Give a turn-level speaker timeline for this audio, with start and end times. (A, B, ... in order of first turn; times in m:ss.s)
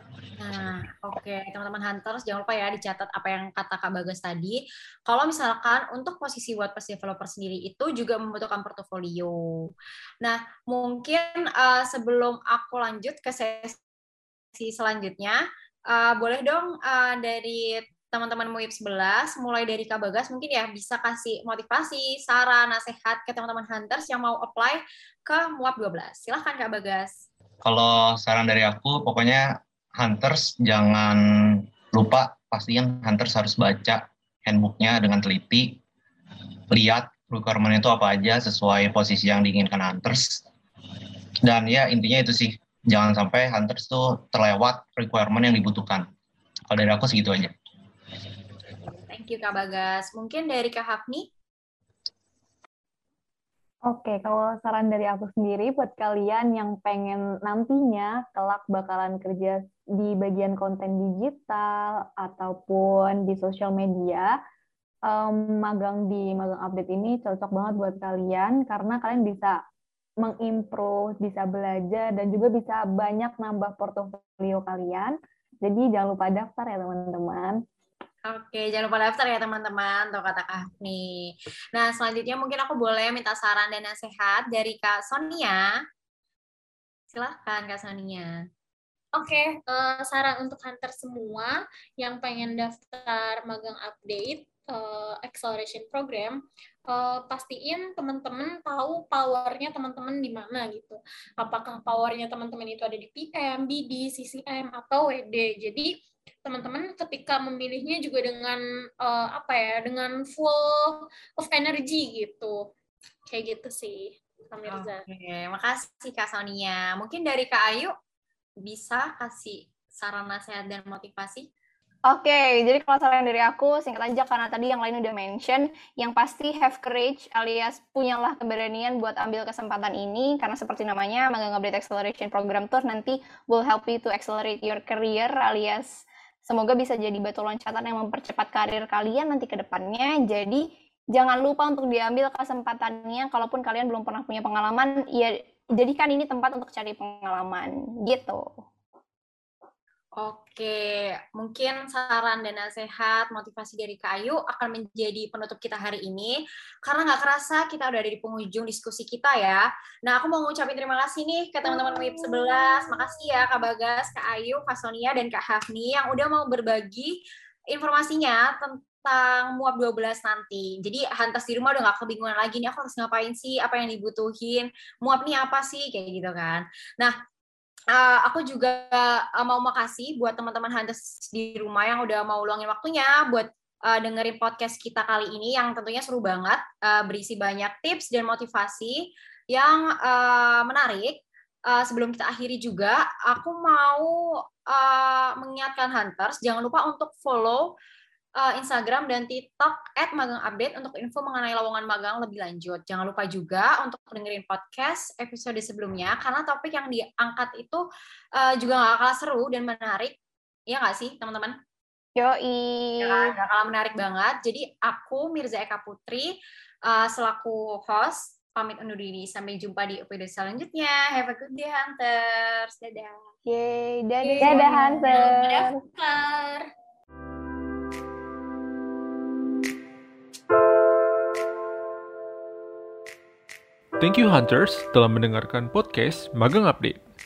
0:00.4-0:13.8 A
0:14.6-0:27.1 A
0:27.6-0:35.8 B
0:36.7-0:40.4 B
0:41.4-0:46.1 B
0:46.7-0:47.5 B
0:48.8-0:51.3 A
0:53.9-1:04.3 C
1:05.1-1:09.6 C
1:10.2-1:17.6 C
1:18.3-1:25.7 A
1:27.1-1:28.4 A
1:29.1-1:45.9 D
1:46.4-1:52.7 D
1:53.3-1:55.0 D
1:54.7-1:57.9 A
1:58.6-2:01.5 A
2:02.1-2:28.6 E
2:30.2-2:47.2 A
2:47.7-2:57.1 A
2:57.9-3:14.1 A
3:14.7-3:17.7 A
3:18.4-3:27.8 A
3:28.4-3:30.2 A
3:30.7-3:31.6 A
3:32.2-3:33.3 E
3:33.0-3:43.2 A
3:43.5-3:44.9 E
3:44.2-3:46.7 D
3:44.4-3:45.8 C
3:54.0-3:57.0 F